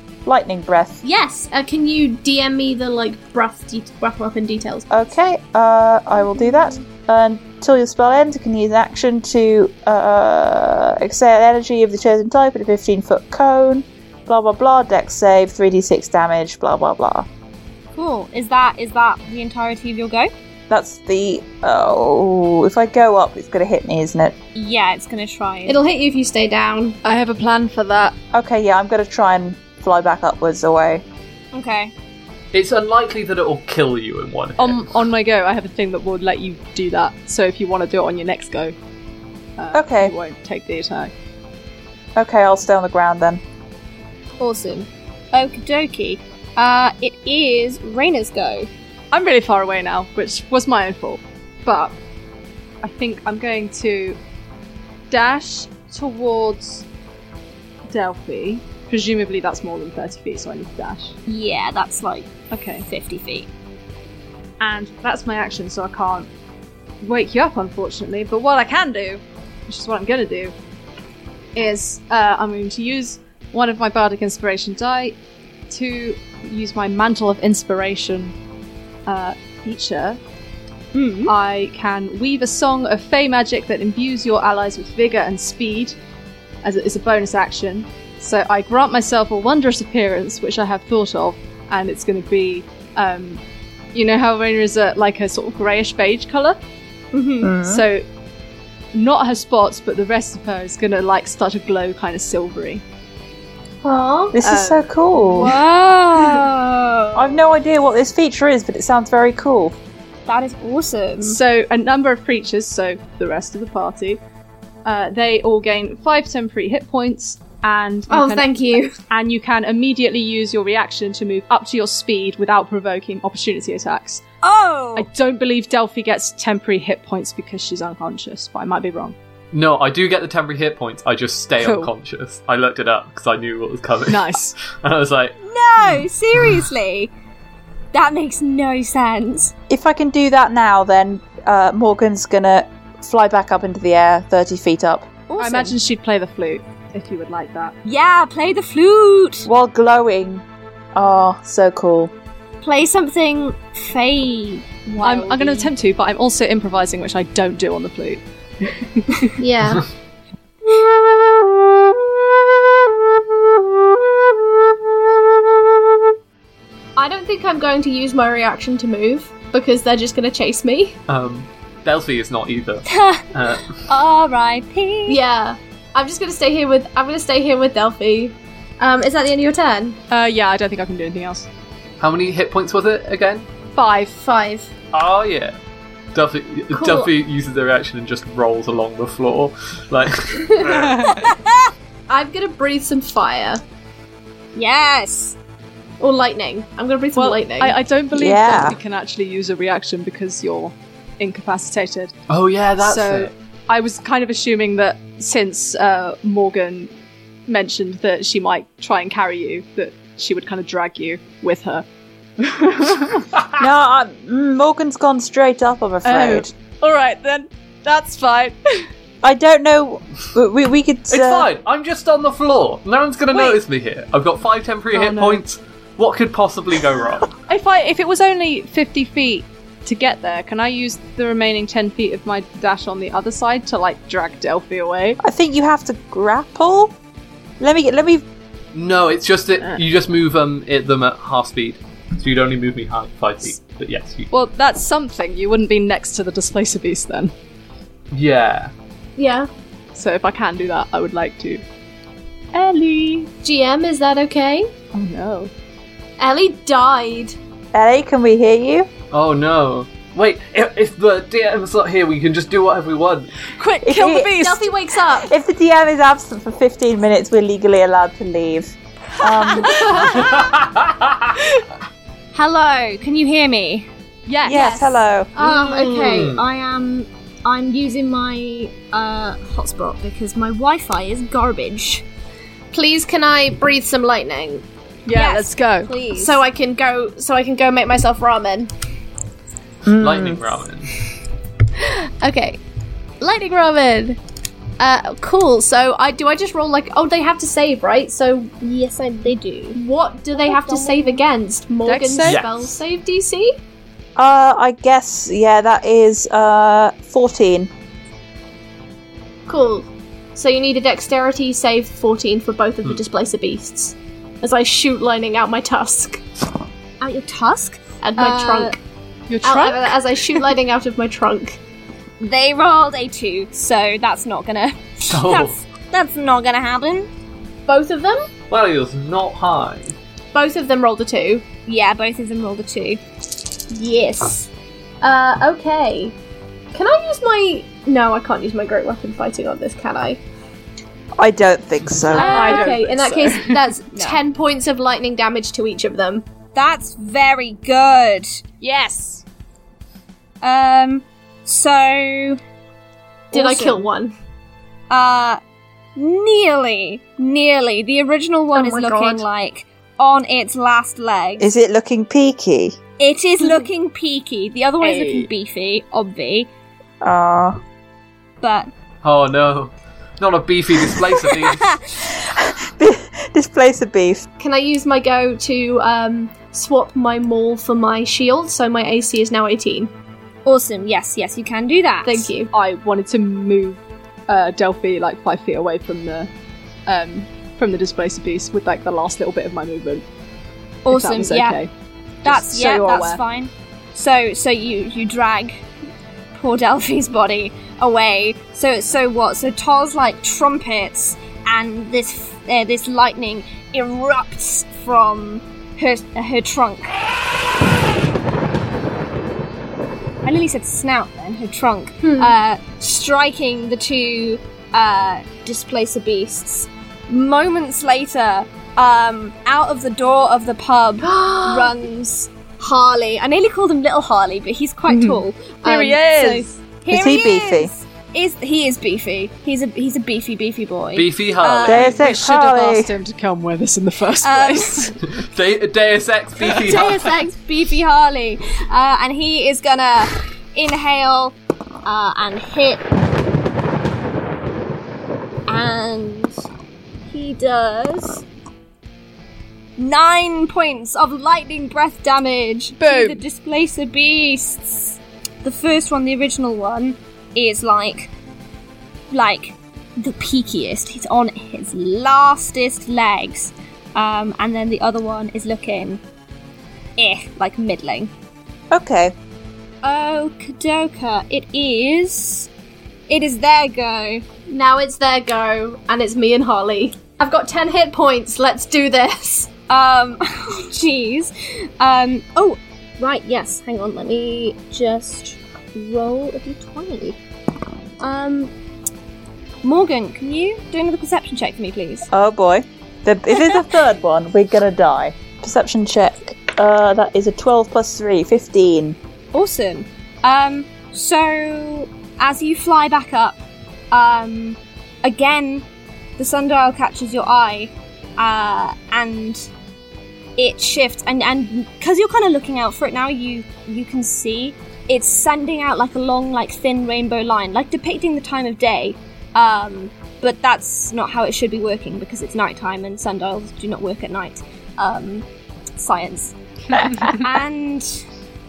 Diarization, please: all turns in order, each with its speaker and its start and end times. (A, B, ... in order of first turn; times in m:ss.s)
0:00.3-0:01.0 A
0:01.0-0:04.9 B
0:04.9-0:17.3 A
0:18.0-0:20.3 C
0:20.7-0:24.4 A
0:24.6-0:25.8 C
0:25.7-0:27.0 B
0:27.0-0:28.2 D
0:28.3-0:31.0 A
0:31.5-0:31.9 C
0:32.5-0:34.9 E
0:34.6-0:38.8 D
0:39.6-0:41.1 D
0:39.7-0:40.1 A
0:42.2-0:43.4 A
0:44.4-0:48.7 C
0:49.1-0:52.0 D
0:52.8-0:54.2 D
0:55.1-0:56.9 D
0:57.9-1:01.2 D
1:01.3-1:03.5 C
1:02.5-1:02.9 D
1:04.6-1:06.3 D
1:07.0-1:10.5 D
1:11.6-1:15.2 D
1:15.7-1:18.3 D
1:19.1-1:20.2 D
1:20.9-1:21.3 C
1:21.3-1:26.0 D
1:26.6-1:33.4 D
1:33.9-1:36.6 D
1:37.1-1:37.5 C
1:37.4-1:37.8 A
1:37.6-1:38.0 D
1:38.9-1:42.8 D
1:43.8-1:44.4 B
1:44.3-1:45.5 A
1:44.4-1:45.5 D
1:45.3-1:47.4 C
1:47.2-1:49.8 A
1:50.3-1:51.4 C
1:51.2-1:54.2 D
1:54.8-1:58.6 D
1:58.1-1:59.0 B
1:59.1-2:04.2 D
2:04.4-2:05.1 C
2:05.0-2:09.2 D
2:09.5-2:16.0 E
2:11.6-2:11.9 D
2:14.1-2:14.6 D
2:15.4-2:17.1 C
2:17.9-2:19.5 C
2:19.7-2:25.2 A
2:25.3-2:25.8 C
2:25.4-2:27.8 D
2:27.8-2:29.5 C
2:29.5-2:32.1 A
2:32.6-2:35.7 C
2:35.0-2:39.4 D
2:39.4-2:39.9 B
2:47.0-2:51.0 B
2:51.1-2:53.8 E
2:52.9-2:53.3 C
2:53.9-2:55.2 C
2:55.1-3:00.0 B
3:00.1-3:01.5 D
3:02.0-3:03.5 E
3:03.7-3:04.2 D
3:04.2-3:04.7 B
3:04.9-3:05.6 E
3:06.1-3:11.1 E
3:06.7-3:07.1 B
3:10.4-3:10.7 B
3:10.7-3:11.2 D
3:11.1-3:11.7 C
3:12.1-3:13.6 B
3:14.6-3:15.4 C
3:16.0-3:17.8 B
3:17.2-3:22.1 D
3:18.1-3:18.8 A
3:22.3-3:23.3 E
3:22.8-3:26.9 D
3:27.5-3:31.8 D
3:32.4-3:33.3 D
3:33.6-3:36.5 A
3:36.0-3:38.9 D
3:39.2-3:41.5 A
3:41.1-3:47.3 E
3:44.9-3:45.4 D
3:47.5-3:55.2 D
3:55.2-3:57.0 A
3:57.6-3:58.2 A
3:58.7-4:04.3 E
4:04.3-4:07.3 D
4:08.1-4:08.7 E
4:09.2-4:09.5 B
4:09.9-4:11.6 D
4:12.5-4:13.3 D
4:13.4-4:14.7 B
4:14.9-4:15.5 D
4:16.2-4:17.4 B
4:17.7-4:18.9 A
4:19.1-4:23.4 E
4:23.6-4:24.7 D
4:23.8-4:24.4 A
4:24.3-4:25.3 B
4:25.2-4:30.0 A
4:29.6-4:30.4 D
4:30.0-4:31.4 E
4:32.3-4:33.9 C
4:34.3-4:34.8 D
4:34.4-4:35.3 A
4:34.4-4:35.9 B
4:35.4-4:42.0 C
4:35.7-4:36.4 E
4:42.7-4:44.6 B
4:45.1-4:45.9 D
4:45.1-4:46.4 C
4:46.1-4:48.7 B
4:49.8-4:50.5 A
4:50.0-4:50.9 E
4:51.8-4:52.6 B
4:53.2-4:54.2 B
4:54.8-4:58.5 B
4:58.6-4:59.8 C
4:59.7-5:03.6 B
5:00.4-5:01.2 C
5:01.8-5:02.4 D
5:02.2-5:02.8 E
5:04.2-5:07.7 A
5:09.5-5:16.2 B
5:17.0-5:18.8 C
5:18.0-5:18.8 B
5:19.3-5:19.9 D
5:19.4-5:21.6 B
5:22.2-5:27.1 C
5:25.1-5:25.6 E
5:27.7-5:28.3 B
5:28.5-5:30.0 E
5:30.3-5:31.4 B
5:31.7-5:33.0 C
5:33.7-5:34.5 B
5:35.0-5:36.1 B
5:36.7-5:40.2 B
5:41.2-5:42.6 A
5:42.1-5:42.8 C
5:42.1-5:43.6 D
5:42.2-5:46.2 B
5:43.9-5:44.2 C
5:46.5-5:48.4 C
5:48.6-5:49.2 D
5:50.4-5:52.4 C
5:53.3-5:54.1 B
5:53.3-5:53.8 C
5:54.9-5:55.4 C
5:56.0-6:01.5 C
5:58.5-5:59.2 B
6:01.4-6:02.8 A
6:03.0-6:06.5 C
6:03.4-6:03.7 B
6:04.8-6:05.3 D
6:07.0-6:07.6 A
6:08.4-6:08.7 C
6:09.0-6:11.7 E
6:12.0-6:14.3 A
6:14.4-6:19.9 B
6:20.5-6:22.3 C
6:22.0-6:22.5 B
6:22.5-6:26.3 D
6:26.9-6:30.0 D
6:30.8-6:31.6 C
6:30.9-6:31.7 D
6:32.2-6:33.2 D
6:32.2-6:35.6 C
6:36.3-6:47.0 C
6:50.2-7:11.9 C
6:52.0-6:52.4 B
7:01.0-7:01.8 B
7:04.9-7:06.5 D
7:06.9-7:07.7 A
7:10.9-7:12.0 E
7:11.7-7:12.9 A
7:11.9-7:15.0 D
7:14.2-7:14.9 C
7:15.0-7:17.2 E
7:16.6-7:22.8 C
7:25.5-7:26.4 C
7:27.1-7:28.2 C
7:29.8-7:38.1 C
7:32.8-7:33.2 D
7:39.1-7:46.0 C
7:47.0-7:48.1 C
7:48.7-7:49.1 A
7:49.8-7:52.5 C
7:53.1-7:54.2 C
7:54.5-7:59.5 B
7:59.7-8:07.2 C
8:08.0-8:08.5 C
8:09.6-8:12.1 C
8:12.1-8:19.0 A
8:19.3-8:25.7 C
8:26.2-8:29.5 C
8:30.4-8:45.3 C
8:45.8-8:48.0 C